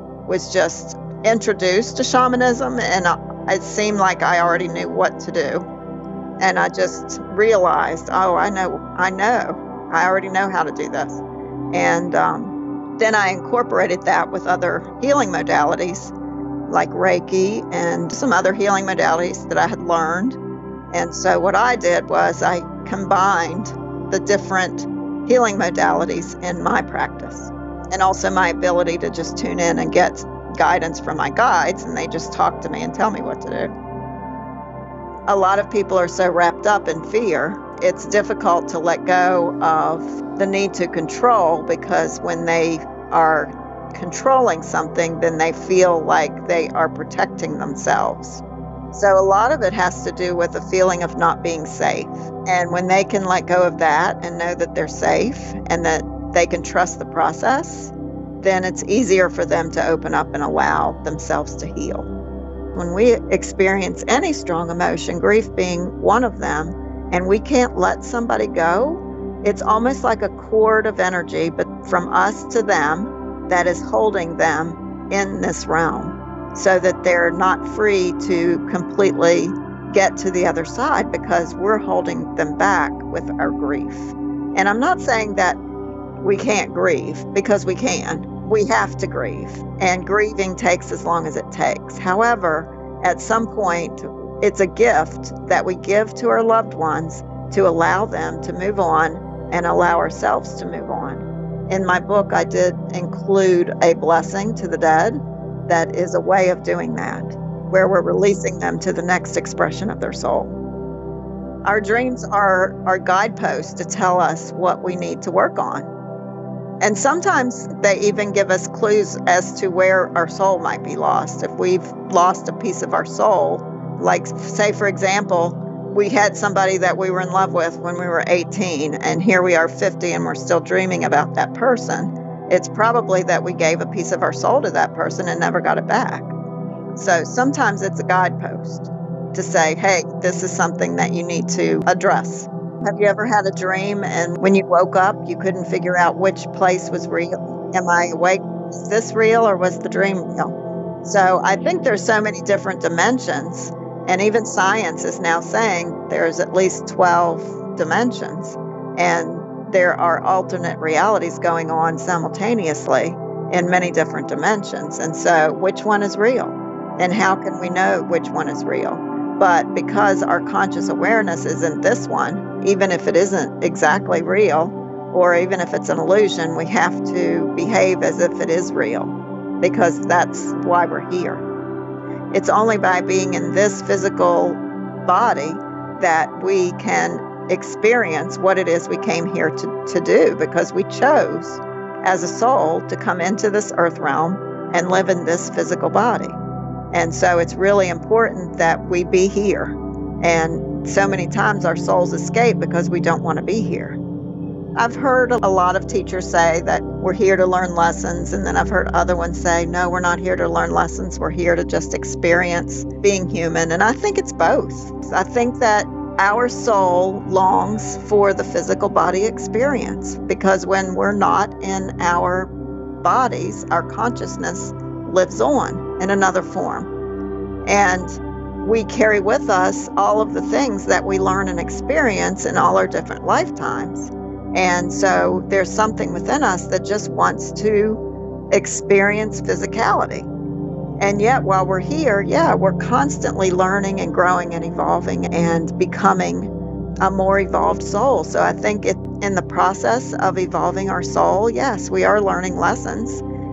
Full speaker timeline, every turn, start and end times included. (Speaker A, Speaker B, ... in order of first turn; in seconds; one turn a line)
Speaker A: 0.3-5.7
Speaker A: 6.4-16.1
Speaker A: 16.7-20.4
Speaker A: 20.9-33.7
Speaker A: 35.3-62.1
Speaker A: 62.7-85.6
Speaker A: 86.2-110.5
Speaker A: 111.6-115.9
Speaker A: 116.8-136.3
Speaker A: 136.9-181.4
Speaker A: 182.3-196.4
Speaker A: 196.9-204.0
Speaker A: 204.8-222.5
Speaker A: 223.0-226.9
Speaker A: 227.6-238.0
Speaker A: 238.5-240.3
Speaker A: 241.0-253.2